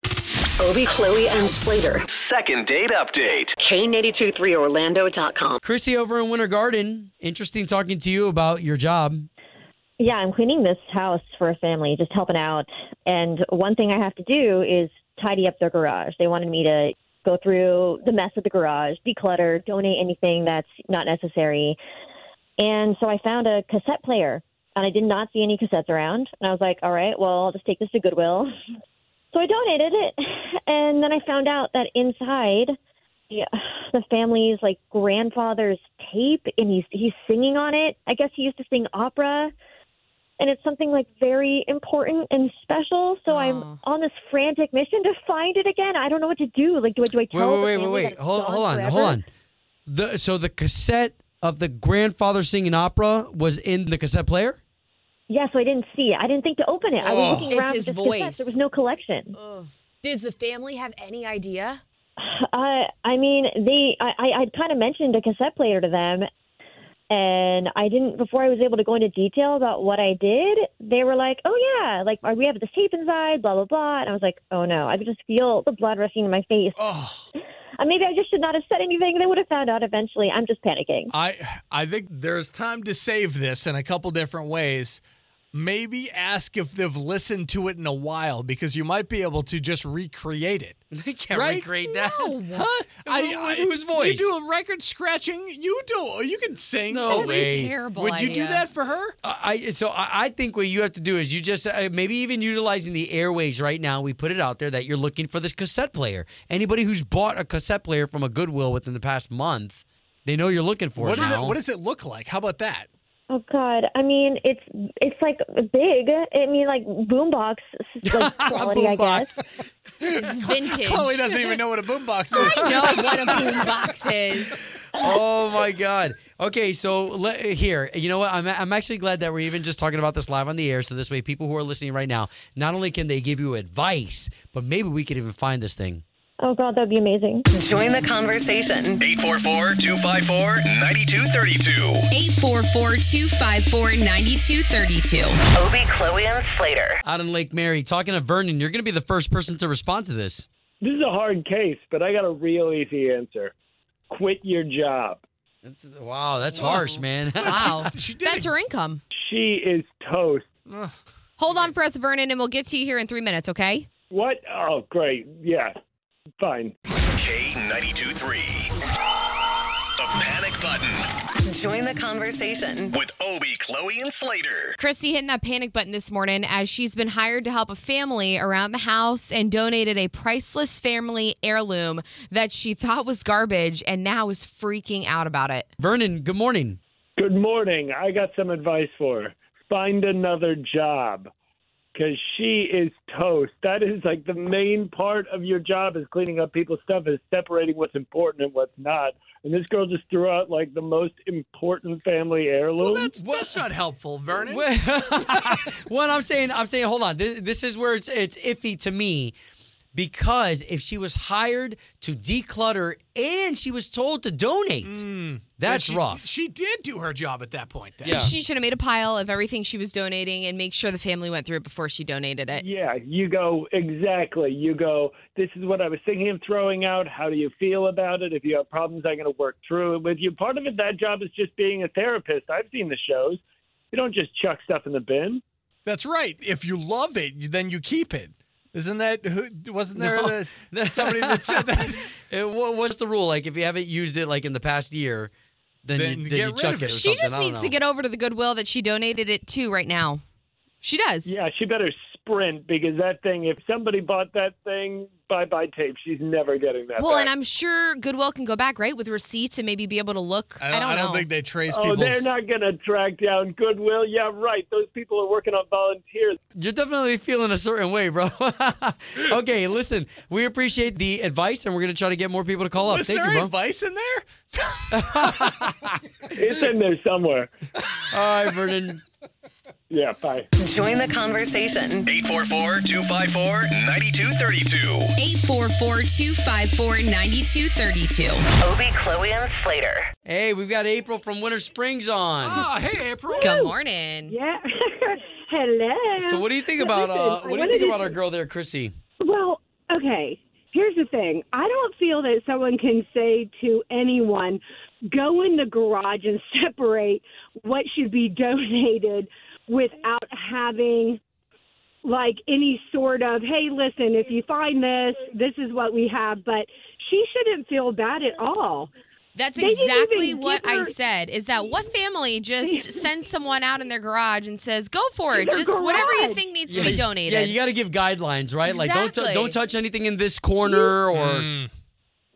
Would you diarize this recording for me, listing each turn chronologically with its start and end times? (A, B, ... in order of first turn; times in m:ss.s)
0:00.6-0:02.0 A
0:02.1-0:03.5 B
0:03.6-0:05.6 A
0:05.6-0:09.3 C
0:10.0-0:21.8 D
0:22.6-0:28.5 D
0:29.3-0:32.7 D
0:33.3-0:39.5 D
0:40.4-0:49.2 D
0:43.3-0:43.8 E
0:47.3-0:49.2 C
0:49.9-0:54.6 C
0:55.3-0:59.3 D
0:57.5-0:58.5 E
0:59.3-1:01.8 E
1:02.2-1:06.3 D
1:07.1-1:16.9 D
1:16.8-1:17.1 F
1:17.8-1:21.1 D
1:21.1-1:25.0 F
1:25.5-1:30.8 F
1:30.9-1:32.4 C
1:31.3-1:31.8 F
1:32.0-1:32.6 E
1:32.5-1:39.1 F
1:33.0-1:34.3 C
1:36.9-1:37.7 C
1:37.1-1:38.6 E
1:39.2-1:51.6 C
1:51.0-1:52.9 F
1:53.3-1:59.4 D
1:58.0-1:59.3 C
2:00.0-2:01.5 E
2:00.8-2:03.2 F
2:02.3-2:04.6 E
2:04.9-2:16.0 C
2:16.4-2:17.4 D
2:17.5-2:19.0 A
2:19.0-2:22.1 B
2:22.1-2:25.4 E
2:25.5-2:27.0 A
2:27.0-2:30.4 C
2:30.8-2:33.5 G
2:34.1-2:35.2 G
2:35.6-2:37.9 C
2:37.4-2:38.4 F
2:37.4-2:39.0 E
2:39.2-2:40.5 G
2:41.4-2:43.9 E
2:44.1-2:45.8 G
2:46.4-2:46.7 G
2:47.1-2:48.7 B
2:50.0-2:51.0 B
2:51.4-2:53.0 A
2:52.9-2:54.7 B
2:54.8-3:05.7 E
3:05.8-3:06.8 C
3:07.2-3:11.3 G
3:11.9-3:23.2 G
3:23.0-3:24.6 F
3:23.2-3:23.6 C
3:24.3-3:29.3 C
3:29.9-3:35.0 C
3:34.8-3:38.2 F
3:35.6-3:36.3 C
3:38.0-3:38.3 C
3:38.1-3:42.6 E
3:42.6-3:53.4 G
3:53.9-3:55.4 G
3:55.8-4:01.9 F
3:59.9-4:05.3 C
4:05.8-4:07.8 C
4:06.0-4:07.1 F
4:06.9-4:10.2 E
4:10.8-4:11.3 E
4:11.2-4:17.3 G
4:17.0-4:21.3 E
4:20.6-4:22.3 F
4:21.7-4:26.4 G
4:26.6-4:33.5 C
4:32.8-4:35.0 F
4:34.9-4:35.9 C
4:36.3-4:37.5 G
4:38.1-4:39.0 C
4:39.9-4:40.5 G
4:40.6-4:42.1 A
4:42.1-4:45.1 B
4:45.2-4:48.4 E
4:48.6-4:50.1 A
4:50.2-4:52.7 C
4:52.4-4:53.4 F
4:53.3-4:53.8 H
4:53.4-4:54.4 E
4:54.3-4:58.1 H
4:56.2-4:58.9 C
4:59.2-5:11.2 H
5:12.0-5:18.9 H
5:19.4-5:27.6 E
5:19.6-5:20.9 H
5:22.6-5:23.0 H
5:25.3-5:26.4 H
5:26.7-5:31.5 C
5:28.6-5:29.6 E
5:30.6-5:31.0 H
5:31.1-5:31.7 F